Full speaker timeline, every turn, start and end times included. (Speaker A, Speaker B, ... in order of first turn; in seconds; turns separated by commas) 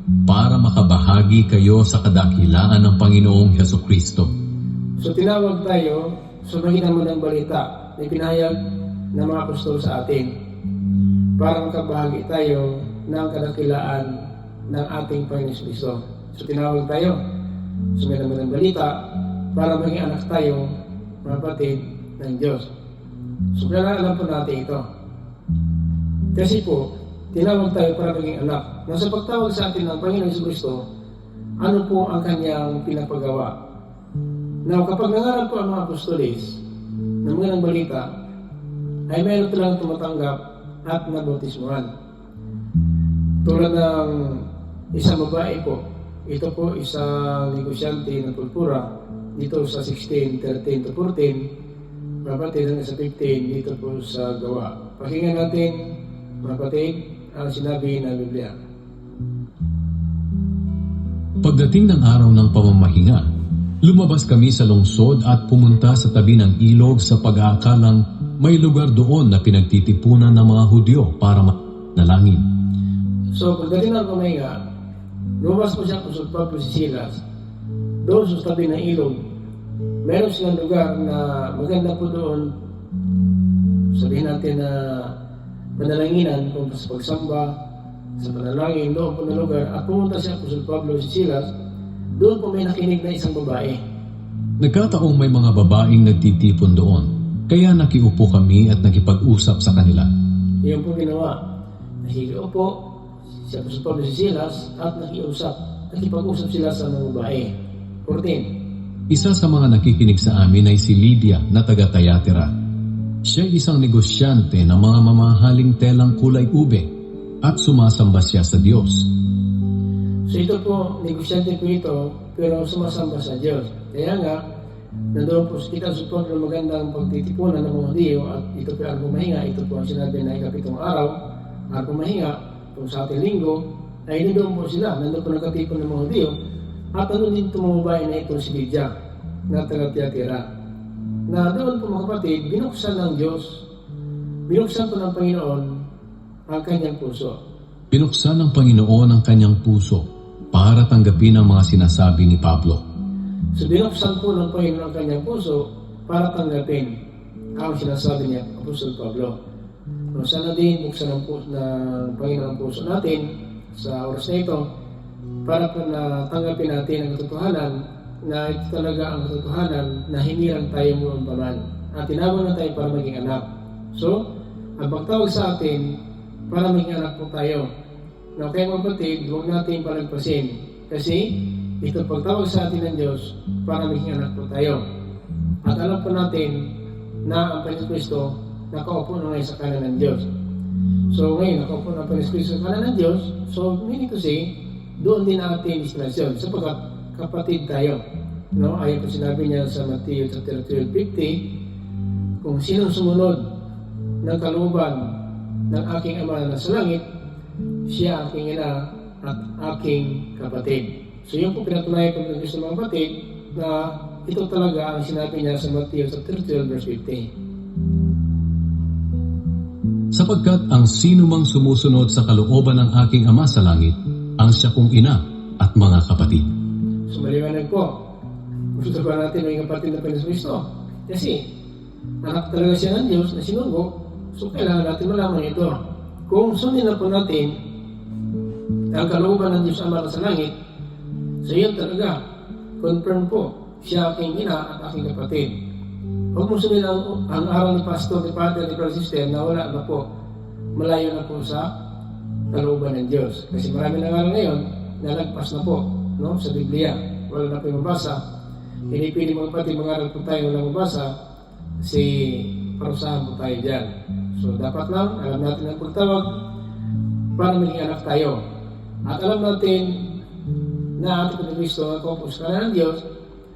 Speaker A: 0.3-4.3, Speaker B: 5.0-8.5, Speaker B: 9.1-10.3, Speaker B: 11.4-14.1, Speaker B: 14.7-17.2, Speaker B: 17.9-18.9, Speaker B: 19.5-20.6, Speaker B: 21.2-22.7, Speaker B: 23.5-24.9, Speaker B: 26.3-30.8, Speaker B: 31.6-33.5, Speaker B: 34.6-36.6, Speaker B: 37.2-38.0, Speaker B: 39.1-41.9, Speaker B: 43.4-48.8, Speaker B: 49.4-51.4, Speaker B: 52.2-55.8, Speaker B: 56.4-58.5, Speaker A: 61.4-63.2, Speaker A: 63.8-72.4, Speaker B: 73.3-74.5, Speaker B: 75.4-77.2, Speaker B: 78.0-79.2, Speaker B: 80.0-82.5, Speaker B: 83.9-85.1, Speaker B: 85.8-87.5, Speaker B: 88.2-91.5, Speaker B: 92.2-93.8, Speaker A: 94.6-100.1, Speaker B: 100.6-101.3, Speaker B: 102.0-102.8, Speaker B: 103.5-107.5, Speaker B: 108.0-108.5, Speaker A: 109.1-112.5, Speaker A: 113.2-116.9, Speaker A: 117.4-119.1, Speaker B: 120.3-124.4, Speaker B: 125.1-131.1, Speaker B: 131.7-136.3, Speaker B: 136.9-138.9, Speaker B: 139.5-140.4, Speaker B: 141.3-143.6, Speaker B: 144.5-145.7, Speaker B: 146.5-147.4, Speaker A: 147.9-152.8, Speaker B: 153.5-156.9, Speaker B: 157.6-159.4, Speaker B: 160.1-164.6, Speaker B: 165.4-167.7, Speaker B: 168.2-174.2, Speaker B: 174.8-175.9, Speaker B: 176.5-177.7, Speaker B: 178.4-184.8, Speaker B: 185.6-186.7, Speaker B: 187.2-190.3, Speaker B: 191.1-198.0, Speaker B: 198.5-201.4, Speaker B: 202.4-203.4, Speaker B: 204.2-205.1, Speaker B: 205.7-207.0, Speaker B: 207.9-217.3, Speaker A: 220.1-226.5, Speaker B: 227.1-227.9, Speaker B: 228.7-231.4, Speaker B: 232.2-237.5, Speaker B: 238.9-240.5, Speaker B: 241.4-242.2, Speaker B: 242.8-245.5, Speaker B: 246.3-250.0, Speaker B: 250.8-251.7, Speaker B: 252.5-258.2, Speaker B: 258.9-261.1, Speaker B: 261.8-266.3, Speaker B: 267.4-268.4, Speaker B: 269.1-270.1, Speaker B: 271.0-273.0